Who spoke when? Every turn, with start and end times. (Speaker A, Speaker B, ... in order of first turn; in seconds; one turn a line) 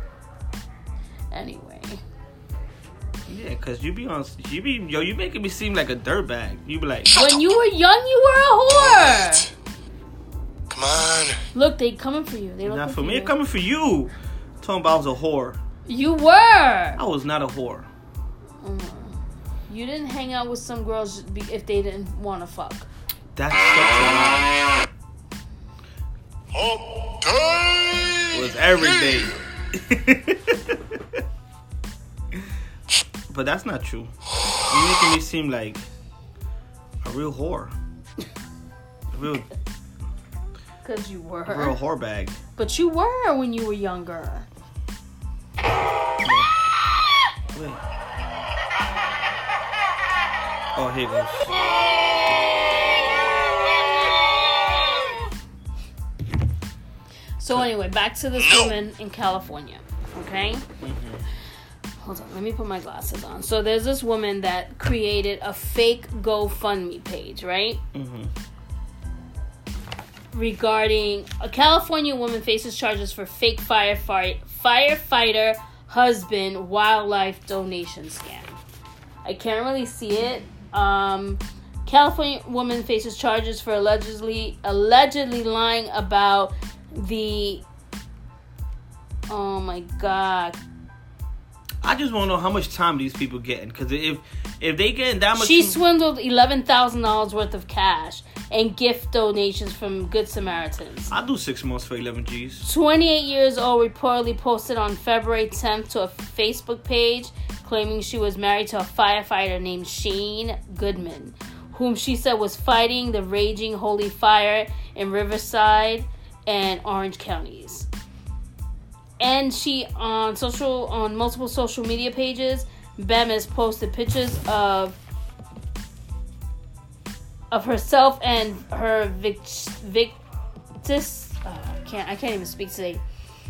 Speaker A: 1.3-2.0
Speaker B: 3.3-7.1
Speaker A: 7.1-9.5
Speaker C: 8.7-9.4
Speaker C: 10.7-11.4
Speaker A: 11.5-13.3
Speaker B: 12.6-15.6
Speaker A: 15.9-17.0
Speaker B: 17.0-17.9
Speaker A: 18.6-19.2
Speaker A: 19.7-22.9
Speaker B: 23.4-24.5
Speaker C: 26.5-28.4
Speaker B: 28.3-30.8
Speaker B: 33.3-35.8
Speaker B: 37.0-37.7
Speaker B: 39.1-39.5
Speaker A: 40.8-41.8
Speaker B: 41.5-42.4
Speaker A: 42.6-44.5
Speaker B: 46.2-46.5
Speaker B: 47.5-47.8
Speaker B: 50.7-51.6
Speaker A: 57.4-60.6
Speaker C: 58.4-58.7
Speaker B: 60.8-61.2
Speaker A: 62.0-67.8
Speaker B: 67.9-68.3
Speaker A: 70.3-78.6
Speaker A: 79.2-87.6
Speaker A: 89.3-90.6
Speaker B: 91.8-95.8
Speaker A: 95.3-101.1
Speaker B: 101.1-102.7
Speaker A: 102.6-117.9
Speaker A: 119.2-125.0
Speaker A: 127.5-130.2
Speaker A: 130.8-133.0